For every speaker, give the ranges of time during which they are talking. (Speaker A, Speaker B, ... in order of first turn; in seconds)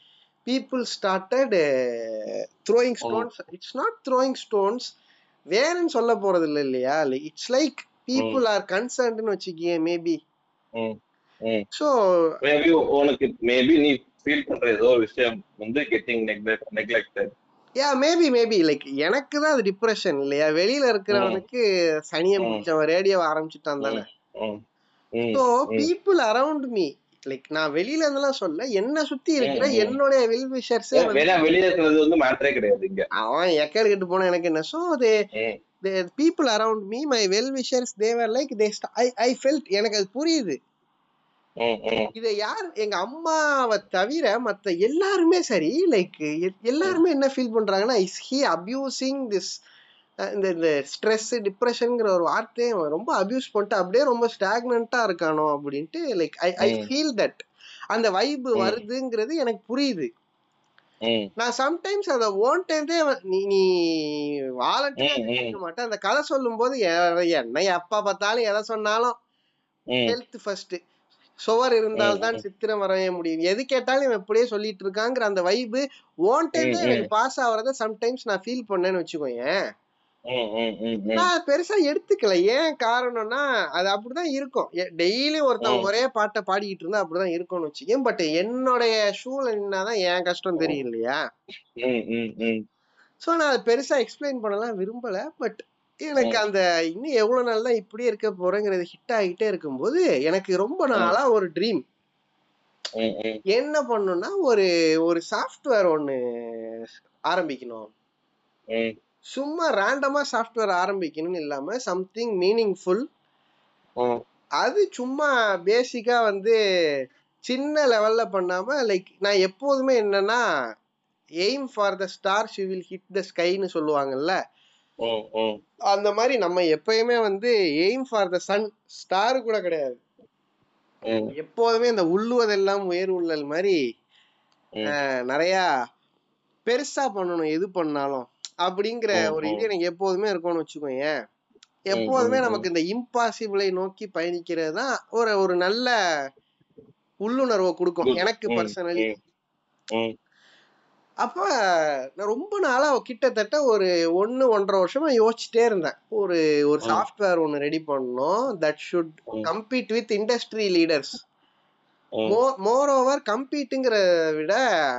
Speaker A: 0.5-4.9, 5.5-10.2, 11.7-12.3, 17.8-24.0, 25.3-31.2, 33.2-35.1, 35.8-40.6, 42.1-49.5, 50.3-57.4, 57.9-60.1, 61.4-63.6, 64.7-69.2, 70.1-70.8, 71.5-79.5, 81.2-91.2, 93.2-101.8, 103.5-107.9, 109.3-113.1, 114.6-116.5, 117.5-120.4, 121.4-124.3, 125.9-130.0, 131.3-133.8, 134.8-135.6, 136.7-141.1, 141.9-145.9, 147.2-149.1, 151.2-151.5, 152.2-161.2, 162.2-164.6
Speaker B: 10.7-11.7, 12.4-17.3, 21.1-21.4, 23.8-24.6, 25.1-25.9, 29.4-30.0, 30.9-33.0, 41.6-42.1, 56.6-56.9, 65.0-65.6, 72.0-72.4, 76.6-77.1, 80.3-81.3, 85.6-85.9, 91.8-92.6, 103.0-103.4, 125.0-125.6, 131.0-131.3, 139.2-139.7, 141.9-142.6, 148.0-149.2